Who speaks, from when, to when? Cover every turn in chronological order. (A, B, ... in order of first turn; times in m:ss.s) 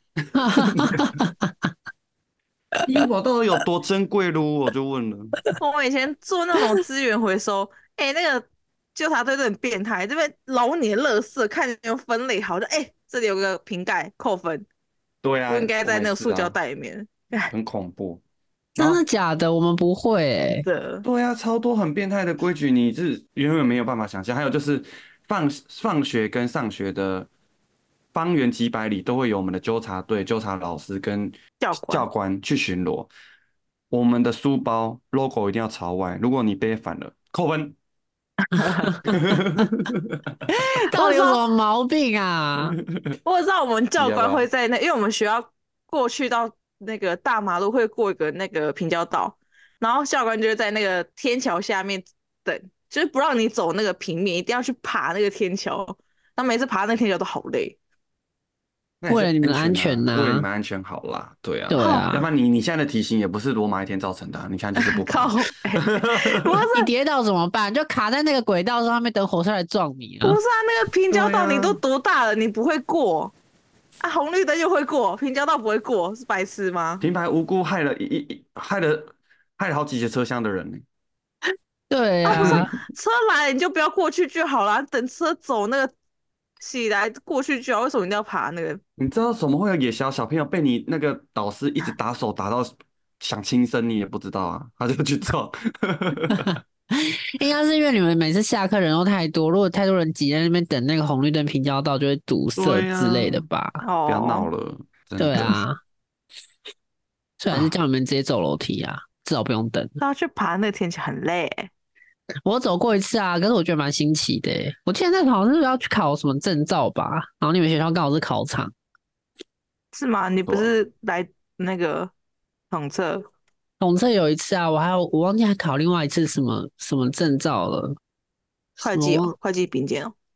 0:00.4-0:01.2 A
0:00.4-0:01.3 B
0:02.8-0:05.4 A
0:05.6-0:14.6 C
0:15.2-0:16.6 A
0:15.5-0:17.5 C
0:17.5-0:18.2 A
0:18.8-0:19.0 A
0:18.8-0:20.7 B
0:20.7-0:21.0 C
0:21.0-0:27.3 A
0:28.1-0:31.4 A
0:31.6-0:32.1 C
0:31.9-0:33.1 A
0:33.9-0:37.8 A
0:38.5-0:39.1 C
0:39.0-0:40.3 A
0:40.5-0:42.8 B
0:40.9-0:41.4 C
0:42.6-0:43.1 A
0:43.2-0:57.8 C
0:44.0-0:44.5 A
0:59.0-1:06.4 A
0:59.1-1:00.5 B
1:01.7-1:02.3 B
1:01.8-1:02.1 C
1:04.8-1:06.9 C
1:06.7-1:10.4 B
1:10.2-1:13.3 C
1:11.1-1:11.8 A
1:14.0-1:17.0 C
1:17.0-1:20.8 A
1:21.9-1:22.7 B
1:22.3-1:25.9 C
1:22.4-1:22.7 A
1:26.6-1:28.8 C
1:29.0-1:36.6 A
1:36.3-1:43.8 B
1:42.6-1:43.4 A
1:43.8-1:44.5 C
1:44.1-1:45.6 A
1:45.2-1:45.8 B
1:47.4-1:50.0 B
1:50.0-1:51.7 C
1:52.4-1:58.7 B
1:59.9-2:02.1 C
2:00.5-2:00.8 A
2:02.7-2:03.3 C
2:03.8-2:08.0 B
2:08.8-2:10.1 C
2:08.9-2:09.3 B